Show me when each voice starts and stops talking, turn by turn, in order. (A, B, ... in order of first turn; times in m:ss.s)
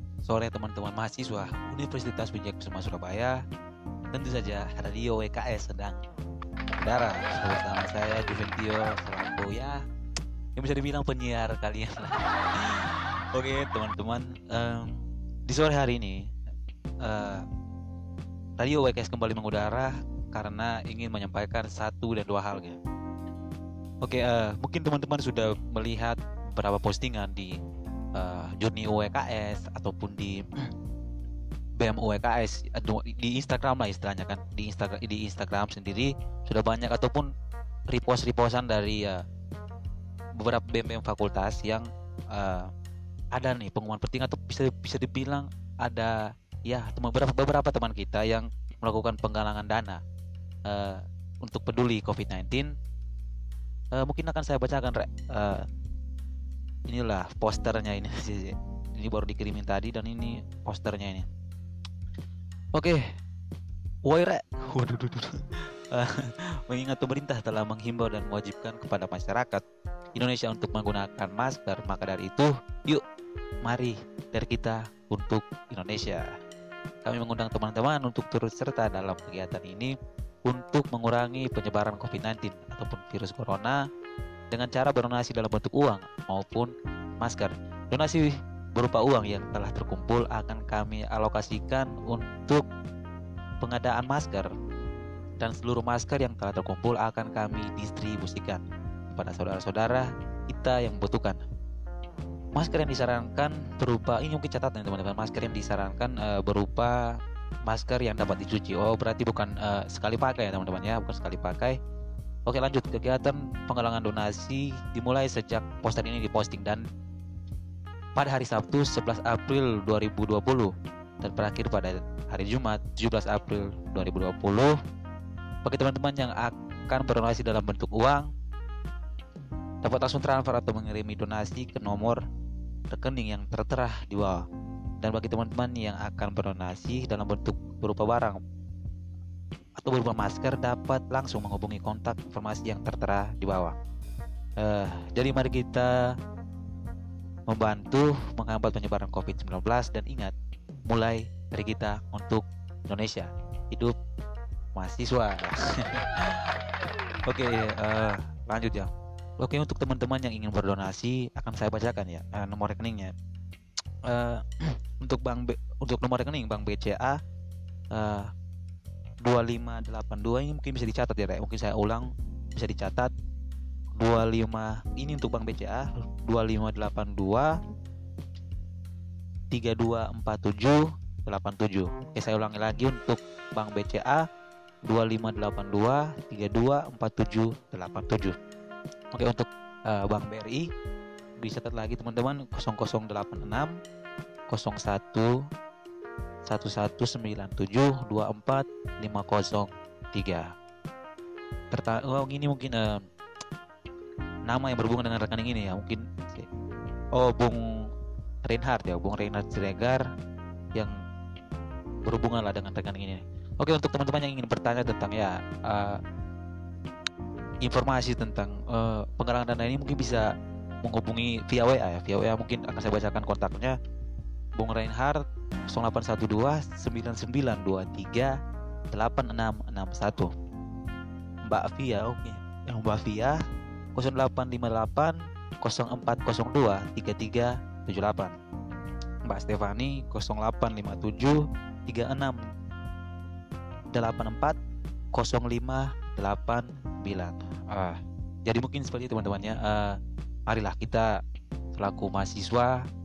0:00.2-0:03.4 A
0:04.1-0:06.0 A
0:06.8-0:09.8 A
0:10.6-0:16.2 A
0:17.0-0:17.4 A
0:18.6-0:22.8 A
0:24.0-0:27.5 A
0:28.2-0:30.7 A
0:31.8-0:37.3 A
0:37.9-0:39.2 A
0:40.4-0:42.7 A
0:43.3-0:50.0 A
0:50.7-0:52.7 A
0:53.9-0:55.6 A
0:56.9-1:01.3 A
1:02.7-1:03.0 A
1:04.0-1:09.6 A
1:10.2-1:13.0 A
1:13.6-1:16.2 A
1:17.0-1:19.9 A
1:20.4-1:23.8 A
1:24.5-1:32.6 A
1:33.6-1:34.5 A
1:35.4-1:41.4 A
1:42.6-1:51.8 A
1:52.5-1:56.8 A
1:58.2-2:04.8 A
2:05.6-2:08.3 A
2:09.8-2:12.2 A
2:12.9-2:14.4 A
2:15.0-2:18.4 A
2:19.8-2:23.8 A
2:24.6-2:26.1 A
2:27.5-2:30.3 A
2:30.9-2:34.0 A
2:34.8-2:36.5 A
2:37.3-2:43.1 A
2:44.1-2:47.2 A
2:47.9-2:48.3 A
2:49.2-2:53.1 A
2:53.9-2:57.6 A
2:59.5-3:04.2 A
3:04.9-3:08.4 A
3:09.1-3:10.7 A
3:11.4-3:13.7 A
3:14.5-3:15.3 A
3:16.4-3:20.5 A
3:21.7-3:23.0 A
3:24.5-3:26.5 A
3:27.2-3:27.6 A
3:28.4-3:30.0 A
3:32.0-3:36.0 A
3:37.6-3:40.2 A
3:40.8-3:43.8 A
3:44.6-3:48.4 A
3:48.9-3:50.3 A
3:51.5-3:53.4 A
3:54.0-3:58.4 A
3:59.3-4:02.4 A
4:03.9-4:04.6 A
4:05.1-4:11.1 A
4:11.7-4:12.8 A